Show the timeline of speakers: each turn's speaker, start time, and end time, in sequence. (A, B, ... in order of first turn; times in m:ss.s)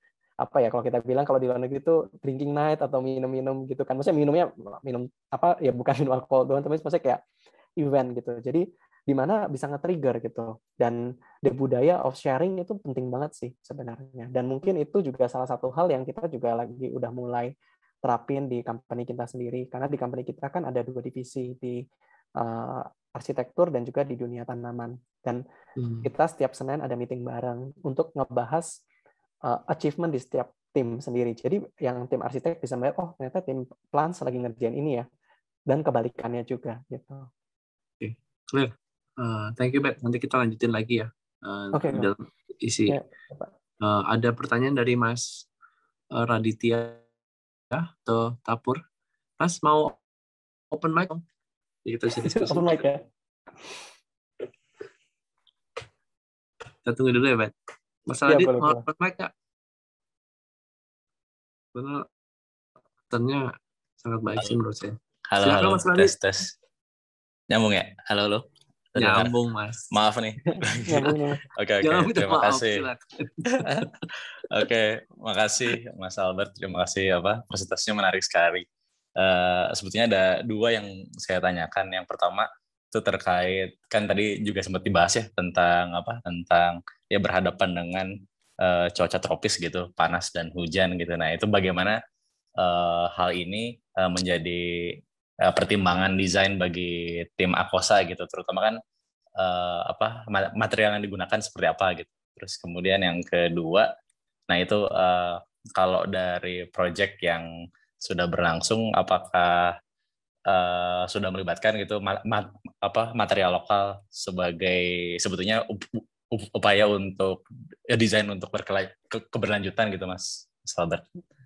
0:00.4-0:07.2 A
0:07.8-0:17.5 A
0:18.0-0:21.8 A
0:22.4-0:25.4 A
0:25.8-0:26.1 B
0:26.0-0:28.7 A
0:29.4-0:35.0 A
0:35.7-0:37.3 A
0:38.0-0:43.0 B
0:41.7-0:42.1 A
0:42.9-0:43.5 A
0:43.8-0:45.4 B
0:46.1-0:47.0 B
0:47.7-0:48.8 B
0:49.4-0:50.0 B
0:50.7-0:51.2 B
0:51.8-0:52.7 B
0:52.2-0:53.0 A
0:56.8-0:57.5 B
0:58.1-0:59.3 B
0:58.2-0:58.8 A
1:01.7-1:02.1 B
1:03.1-1:06.1 B
1:05.3-1:06.5 C
1:07.5-1:09.3 C
1:09.0-1:09.9 B
1:09.9-1:12.9 C
1:10.5-1:11.4 A
1:11.8-1:13.6 B
1:13.6-1:13.9 C
1:14.5-1:18.6 C
1:19.2-1:28.1 C
1:28.6-1:32.0 C
1:32.6-1:38.8 C
1:39.4-1:43.9 C
1:44.5-1:47.5 C
1:48.0-1:49.8 C
1:50.5-2:01.0 C